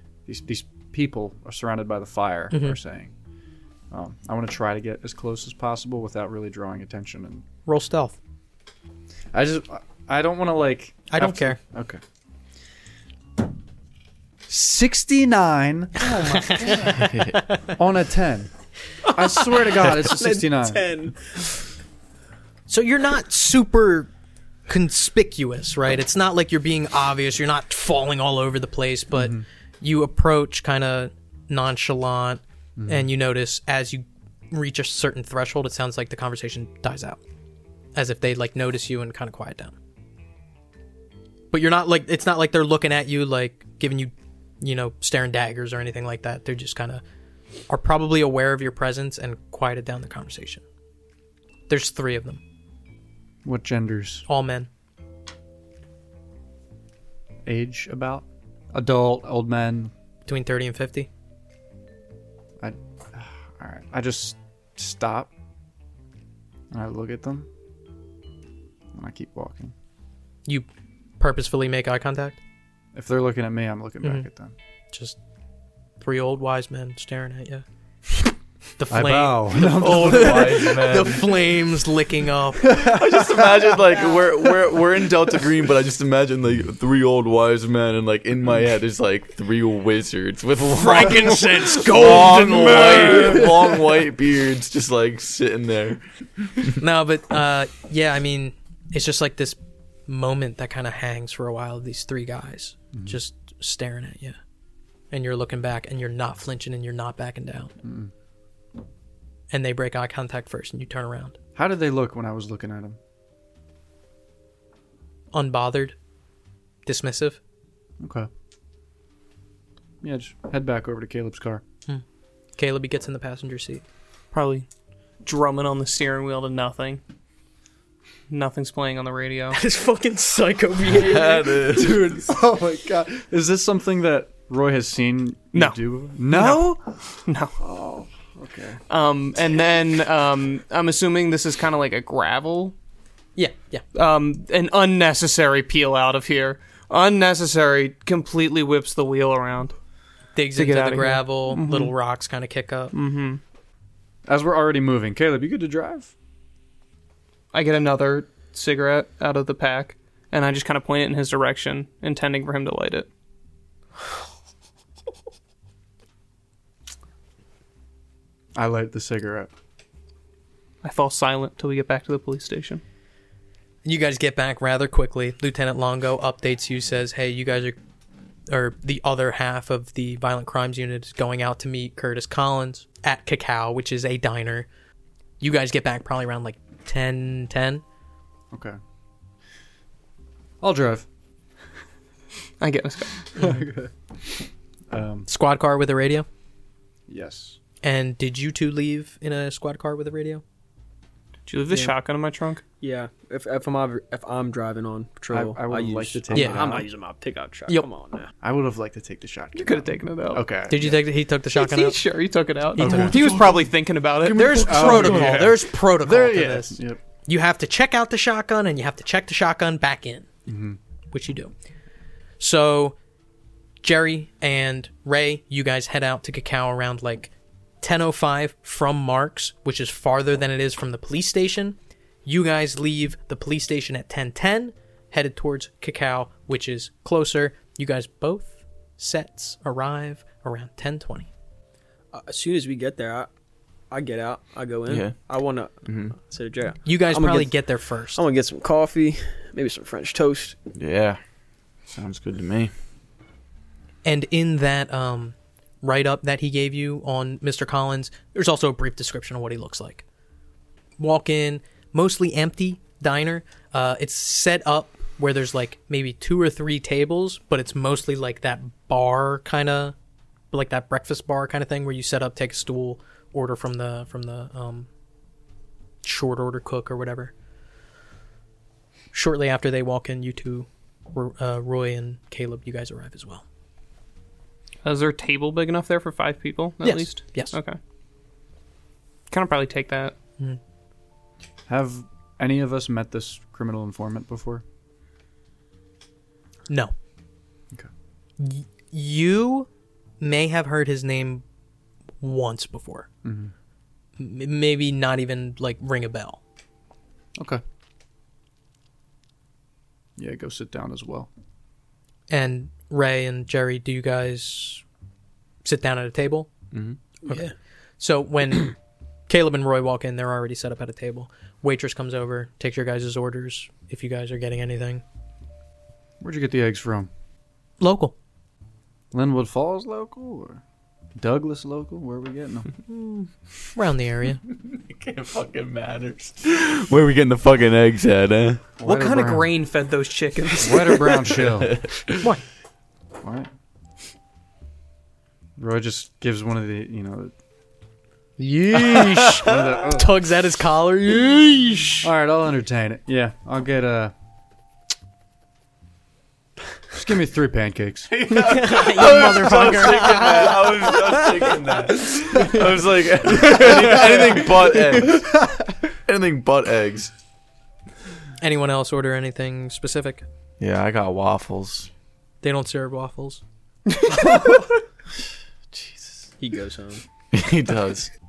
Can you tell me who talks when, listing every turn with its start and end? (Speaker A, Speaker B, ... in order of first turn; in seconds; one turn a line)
Speaker A: 0.2-3.1
Speaker B: 2.5-2.8
Speaker A: 3.9-7.4
Speaker B: 7.7-8.2
Speaker A: 9.3-12.0
Speaker B: 11.1-11.6
Speaker A: 14.5-17.1
Speaker B: 16.0-17.7
Speaker C: 17.0-17.4
Speaker A: 17.7-18.5
Speaker A: 19.1-20.8
Speaker D: 19.6-21.5
Speaker B: 22.7-24.1
Speaker B: 24.7-37.2
Speaker A: 29.1-29.4
Speaker A: 32.8-33.1
Speaker B: 37.9-39.7
Speaker B: 41.5-47.0
Speaker B: 47.7-50.6
Speaker B: 51.7-52.4
Speaker A: 53.4-54.2
Speaker B: 54.3-54.7
Speaker A: 57.5-59.9
Speaker B: 60.2-61.1
Speaker A: 62.6-65.3
Speaker A: 66.7-67.5
Speaker A: 68.9-69.7
Speaker B: 71.2-72.4
Speaker A: 72.9-74.5
Speaker B: 74.9-75.2
Speaker B: 76.0-77.6
Speaker B: 78.8-82.8
Speaker A: 78.9-80.8
Speaker C: 79.5-81.4
Speaker A: 82.6-83.5
Speaker C: 82.7-96.0
Speaker B: 90.7-93.6
Speaker B: 96.8-104.4
Speaker B: 105.1-107.7
Speaker A: 107.8-108.1
Speaker B: 109.5-111.4
Speaker A: 111.5-113.0
Speaker B: 115.3-116.0
Speaker B: 116.8-117.4
Speaker A: 118.0-118.3
Speaker A: 120.0-121.6
Speaker B: 122.6-123.8
Speaker E: 124.3-124.7
Speaker E: 125.2-127.0
Speaker E: 128.3-129.6
Speaker B: 129.5-131.5
Speaker C: 130.9-132.2
Speaker A: 131.6-137.0
Speaker E: 135.5-137.5
Speaker A: 137.6-138.8
Speaker E: 138.9-142.7
Speaker B: 143.4-143.8
Speaker E: 143.9-149.7
Speaker B: 150.3-152.9
Speaker E: 150.6-151.9
Speaker E: 152.9-153.4
Speaker A: 154.2-156.1
Speaker E: 157.5-163.1
Speaker A: 168.5-169.5
Speaker E: 170.8-172.8
Speaker B: 173.8-177.8
Speaker B: 178.5-184.7
Speaker B: 185.4-187.8
Speaker A: 188.5-188.8
Speaker A: 190.6-191.1
Speaker E: 192.6-193.3
Speaker A: 193.3-193.9
Speaker A: 194.9-195.3
Speaker B: 195.3-196.2
Speaker A: 197.1-197.6
Speaker B: 197.8-200.4
Speaker E: 201.5-202.6
Speaker B: 201.7-201.9
Speaker D: 202.8-208.3
Speaker A: 205.3-206.9
Speaker B: 206.3-206.8
Speaker A: 208.4-211.0
Speaker E: 209.5-210.5
Speaker B: 210.7-212.0
Speaker E: 211.5-215.5
Speaker B: 212.7-213.6
Speaker A: 212.8-213.4
Speaker B: 214.2-220.3
Speaker A: 214.4-217.0
Speaker A: 220.5-220.8
Speaker B: 221.1-221.5
Speaker B: 222.4-222.9
Speaker B: 223.8-241.3
Speaker D: 242.1-243.3
Speaker D: 243.9-247.6
Speaker C: 244.9-245.2
Speaker C: 245.9-246.2
Speaker B: 246.8-248.2
Speaker D: 248.1-250.6
Speaker C: 250.7-251.2
Speaker C: 251.9-252.7
Speaker B: 254.1-260.0
Speaker B: 261.0-269.9
Speaker B: 270.5-274.9
Speaker B: 276.0-277.3
Speaker B: 279.1-283.4
Speaker E: 284.8-287.8
Speaker B: 286.8-287.5
Speaker E: 289.3-290.1
Speaker A: 291.7-294.6
Speaker B: 296.7-296.9
Speaker B: 298.4-299.7
Speaker B: 300.2-301.4
Speaker B: 302.2-303.1
Speaker A: 303.2-303.5
Speaker B: 304.2-306.4
Speaker A: 307.4-307.6
Speaker A: 310.2-311.3
Speaker B: 312.3-314.8
Speaker B: 315.6-316.5
Speaker A: 316.7-317.0
Speaker B: 318.0-318.8
Speaker B: 319.3-325.0
Speaker A: 326.2-327.1
Speaker B: 327.8-328.1
Speaker A: 329.1-330.6
Speaker A: 331.2-332.7
Speaker B: 332.9-334.4
Speaker C: 334.5-338.6
Speaker A: 338.8-339.5
Speaker E: 338.8-341.4
Speaker A: 340.6-341.8
Speaker A: 343.2-343.5
Speaker A: 345.6-347.3
Speaker B: 348.4-352.1
Speaker A: 349.4-350.2
Speaker A: 352.0-354.1
Speaker A: 356.9-358.7
Speaker C: 358.1-367.1
Speaker B: 358.4-361.5
Speaker A: 363.6-365.4
Speaker B: 368.4-370.2
Speaker C: 370.6-371.9
Speaker B: 372.4-373.4
Speaker A: 373.9-374.6
Speaker C: 375.7-376.3
Speaker D: 376.4-377.1
Speaker C: 377.3-378.1